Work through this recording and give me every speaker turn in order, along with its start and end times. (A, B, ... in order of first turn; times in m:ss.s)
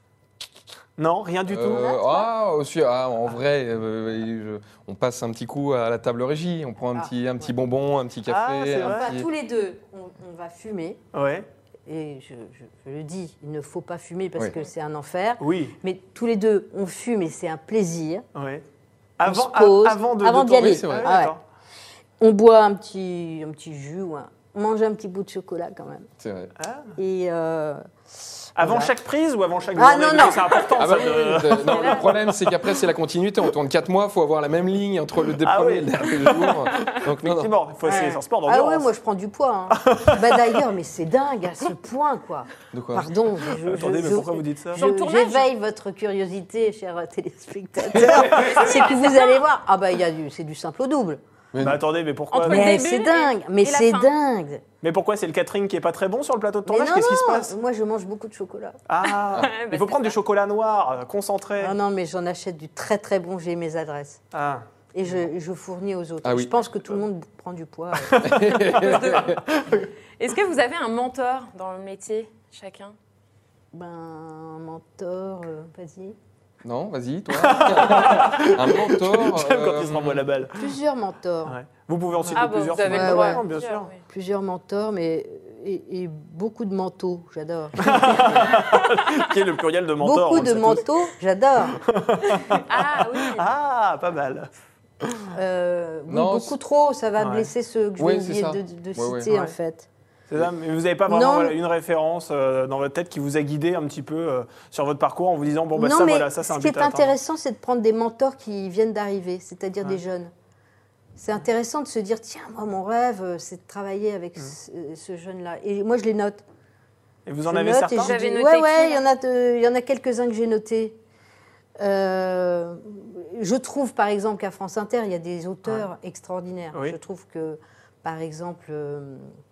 0:01.0-0:02.0 A
0:01.5-0:09.3 B
0:01.5-0:02.3 C
0:07.0-0:07.5 C
0:08.3-0:09.1 A
0:08.7-0:11.0 C
0:11.1-0:11.5 A
0:11.9-0:18.2 C
0:15.4-0:15.8 A
0:18.4-0:18.6 A
0:19.2-0:21.4 A
0:19.3-0:21.4 C
0:20.6-0:21.2 B
0:22.2-0:26.1 C
0:26.2-0:26.5 B
0:26.6-0:27.0 A
0:27.0-0:27.8 C
0:28.6-0:28.9 C
0:28.6-0:32.1 A
0:29.8-0:30.6 C
0:30.8-0:37.5 B
0:31.6-0:32.1 D
0:35.4-0:38.9 A
0:37.8-0:51.2 C
0:39.8-0:40.4 A
0:42.7-0:43.1 B
0:43.5-0:44.8 A
0:44.7-0:45.5 D
0:47.9-0:48.5 B
0:47.9-0:48.9 A
0:51.5-0:51.8 B
0:51.6-0:52.7 A
0:52.3-0:54.1 D
0:52.4-0:54.6 C
0:54.8-0:57.6 A
0:56.7-0:58.8 C
0:58.9-1:01.8 A
0:59.0-1:00.2 D
1:01.6-1:04.2 C
1:04.3-1:04.7 A
1:04.9-1:08.6 C
1:06.2-1:06.6 B
1:08.0-1:09.9 A
1:08.2-1:09.4 B
1:08.7-1:09.4 D
1:10.2-1:13.0 D
1:13.7-1:16.2 C
1:16.6-1:20.2 B
1:17.3-1:20.7 A
1:20.6-1:21.6 C
1:21.5-1:23.9 A
1:22.2-1:23.4 C
1:22.3-1:24.0 D
1:24.1-1:28.6 C
1:27.8-1:30.8 A
1:30.0-1:31.8 C
1:31.8-1:34.5 A
1:32.5-1:33.5 D
1:35.3-1:39.9 C
1:36.1-1:36.6 B
1:37.2-1:37.5 A
1:38.0-1:39.3 B
1:39.3-1:39.6 A
1:40.3-1:47.2 A
1:41.1-1:41.6 C
1:45.8-1:50.3 C
1:51.2-1:56.4 C
1:57.3-1:58.1 A
1:57.5-2:01.0 C
1:57.9-1:59.0 D
2:01.8-2:09.3 C